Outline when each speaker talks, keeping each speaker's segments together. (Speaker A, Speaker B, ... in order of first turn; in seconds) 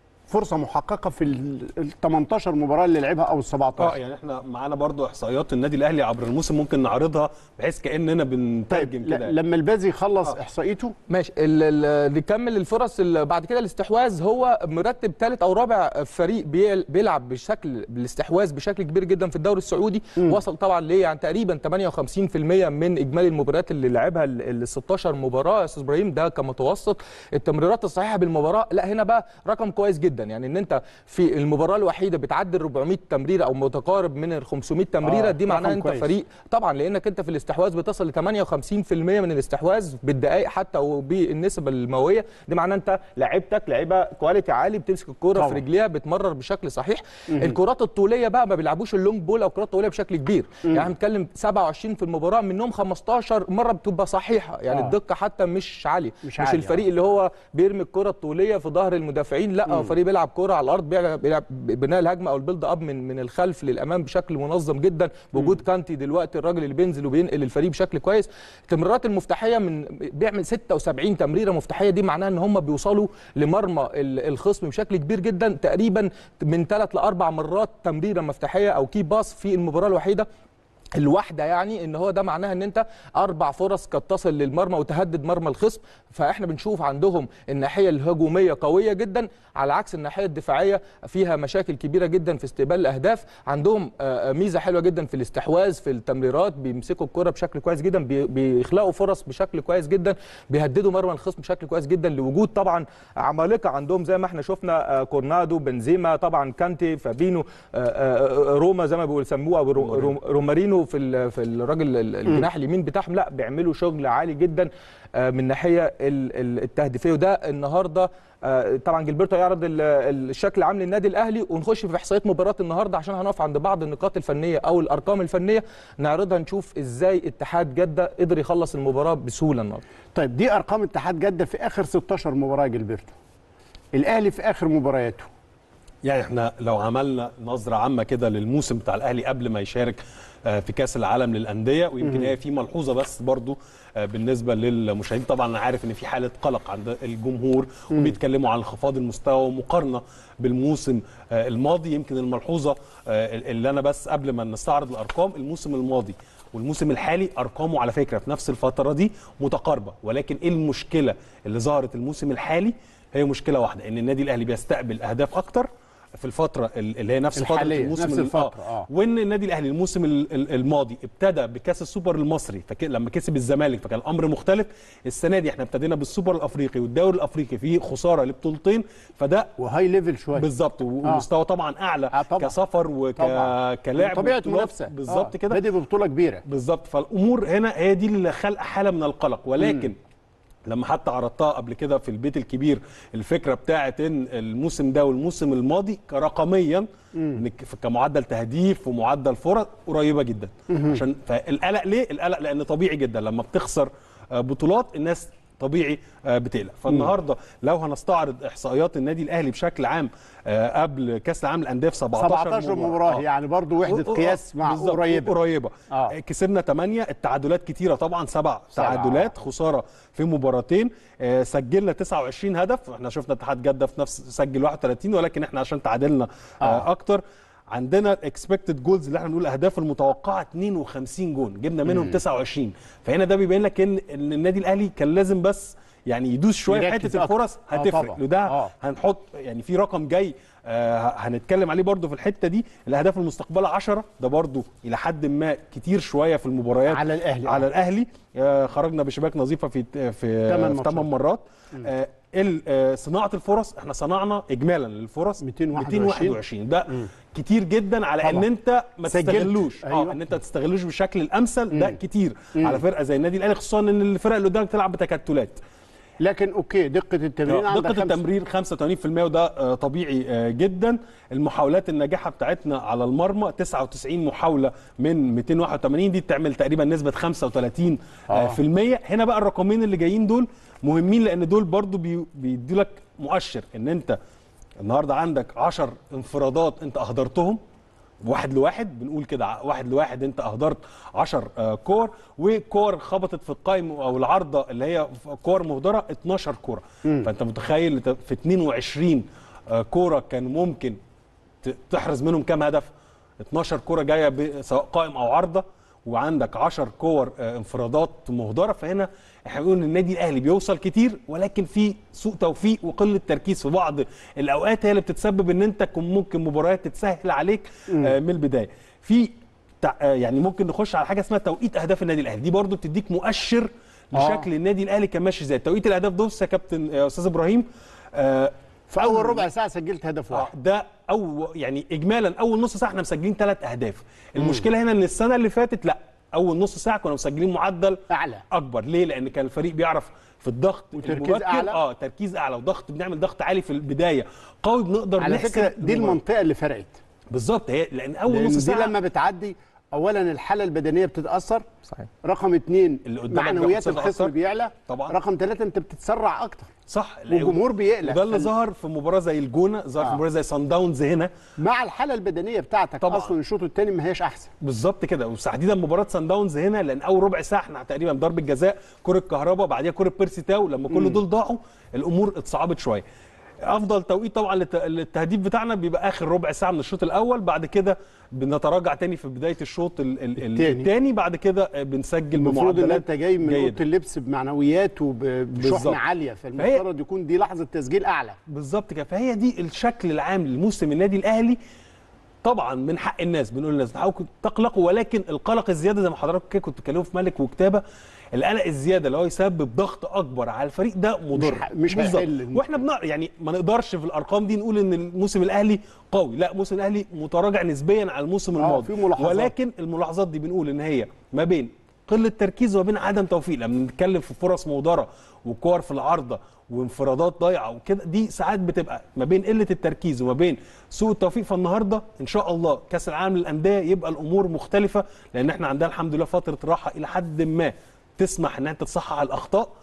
Speaker A: 0.3-3.9, 8.7-10.9, 35.0-36.1, 45.3-45.6, 47.3-47.6, 56.2-56.8, 59.6-59.9, 130.1-133.1, 133.9-135.3, 142.0-142.3, 167.3-168.9, 179.6-180.5, 182.1-182.6, 183.2-186.4, 189.6-189.9, 197.1-197.4, 200.7-201.0, 212.2-215.3, 218.8-219.3, 226.6-226.8, 231.8-232.2, 236.7-238.7, 246.9-247.7, 250.5-251.1, 255.4-256.4, 258.2-258.4, 259.1-260.2, 261.7-262.0, 262.6-262.8, 266.2-268.2, 278.3-278.6, 317.9-318.1, 324.1-324.5, 328.9-330.5, 334.4-334.7, 338.1-338.4, 341.0-341.8, 345.2-347.0, 348.3-351.6, 352.2-356.7, 357.3-358.5, 361.6-364.5, 370.9-371.2, 380.5-380.9, 382.4-388.4, 401.3-402.7, 408.6-409.5
Speaker B: 3.8-9.3, 109.8-110.1, 136.0-179.5, 180.3-185.6, 186.4-190.0, 190.7-213.2, 213.8-265.6, 267.5-284.2, 284.8-287.6, 288.2-301.0, 301.6-302.9, 303.4-329.5, 330.3-338.0, 338.5-346.2, 347.3-348.9, 353.1-354.3, 354.9-355.1, 356.9-361.3, 363.0-363.3, 364.6-373.0, 373.6-383.8, 385.6-386.0, 386.6-386.8, 388.5-391.6, 392.4-429.7
Speaker C: 11.1-80.3, 80.9-129.8